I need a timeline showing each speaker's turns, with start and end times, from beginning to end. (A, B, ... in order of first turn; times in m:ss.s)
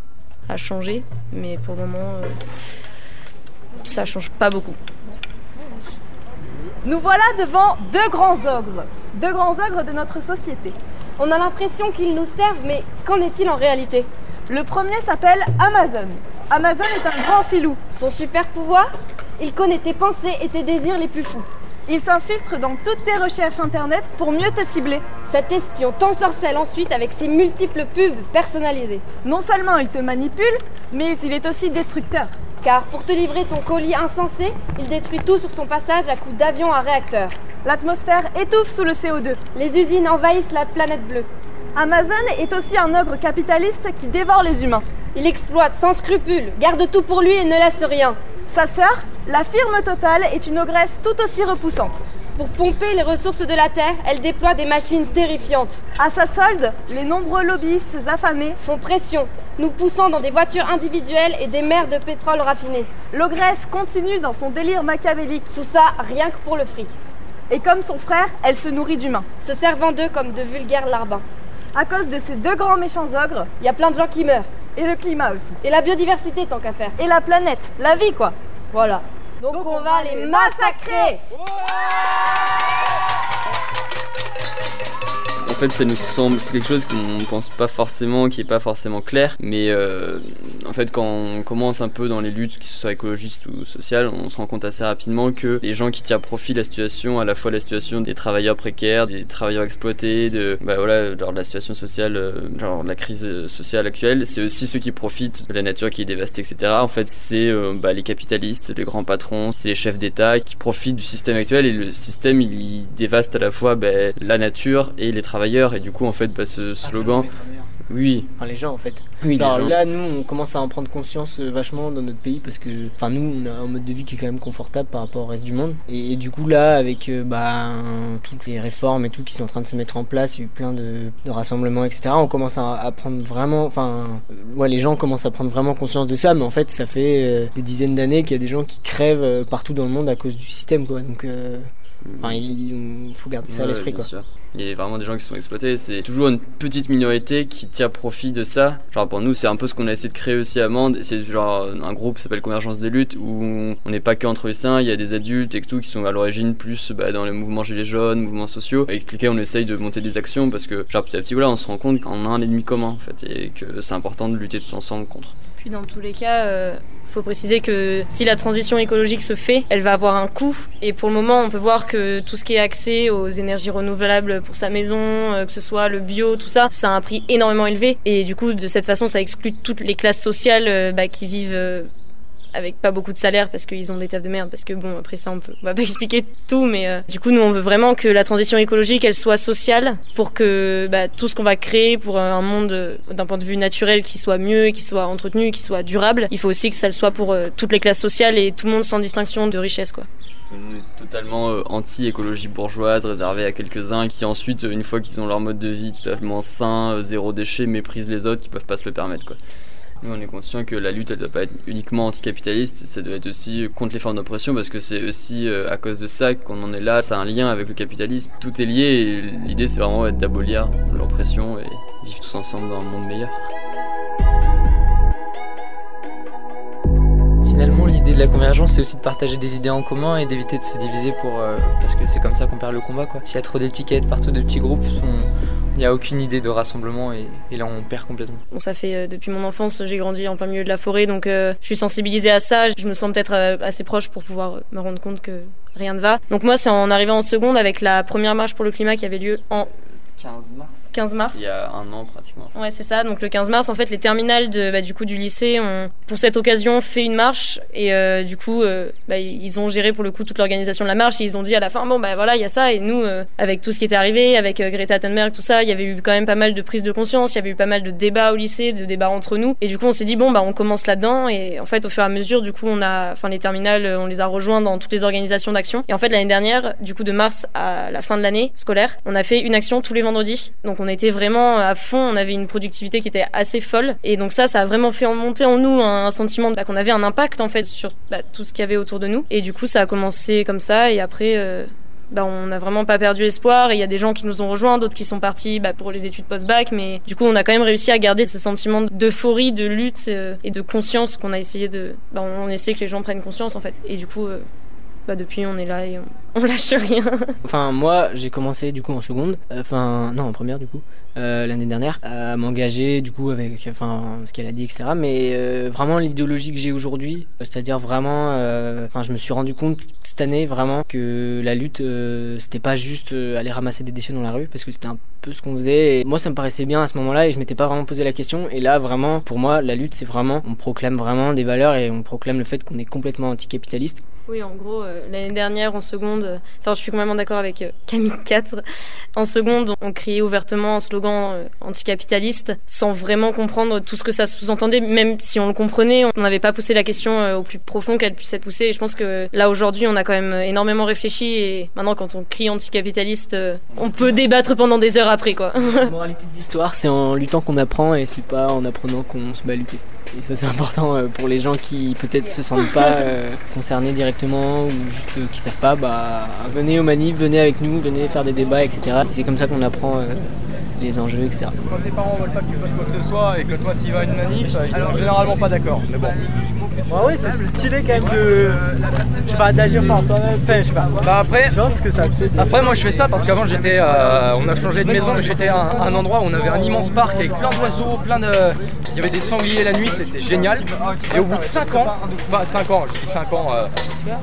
0:00.5-0:02.4 A
0:03.8-0:04.8 A
0:06.8-0:10.8 B
0:11.2-0:14.1 C
0:14.5-0:17.8 B
0:17.9-0:21.5 C
0:21.9-0:25.1 B
0:25.2-0:29.1 C
0:29.2-0:32.3 B
0:32.6-0:37.4 C
0:37.6-0:39.4 B
0:39.6-0:41.3 C
0:41.8-0:44.9 B
0:45.2-0:48.2 C
0:48.5-0:52.0 B
0:52.4-0:55.8 C
0:56.0-0:58.6 B
0:58.6-1:02.9 C
1:03.1-1:05.5 B
1:05.6-1:06.9 C
1:07.5-1:09.3 B
1:09.4-1:11.2 C
1:11.7-1:13.5 B
1:13.6-1:14.5 C
1:14.8-1:15.6 B
1:15.6-1:16.9 C
1:17.0-1:18.4 B
1:18.7-1:21.2 C
1:19.5-1:21.1 B
1:25.4-1:57.3 D
1:56.8-1:57.7 E
1:57.9-1:58.3 D
1:58.4-2:21.7 E
1:59.2-1:59.8 D
2:22.0-2:22.4 D
2:22.2-2:24.1 E
2:23.5-2:45.3 D
2:45.6-3:01.9 A
3:02.5-3:20.1 A
3:20.5-3:29.4 D
3:30.0-3:43.5 D
3:47.4-3:58.4 F
3:58.5-4:09.7 A
4:10.2-4:12.5 D
4:10.9-4:11.5 A
4:12.6-5:04.4 A
5:05.1-5:07.3 A
5:07.4-5:34.0 E
5:34.3-5:38.6 A
5:39.2-5:55.9 A
5:53.8-5:54.1 E
5:55.8-6:11.6 E
6:11.6-6:16.2 G
6:16.9-6:18.7 H
6:19.2-6:22.7 H
6:21.0-6:21.6 G
6:22.4-6:33.7 G
6:24.9-6:25.8 H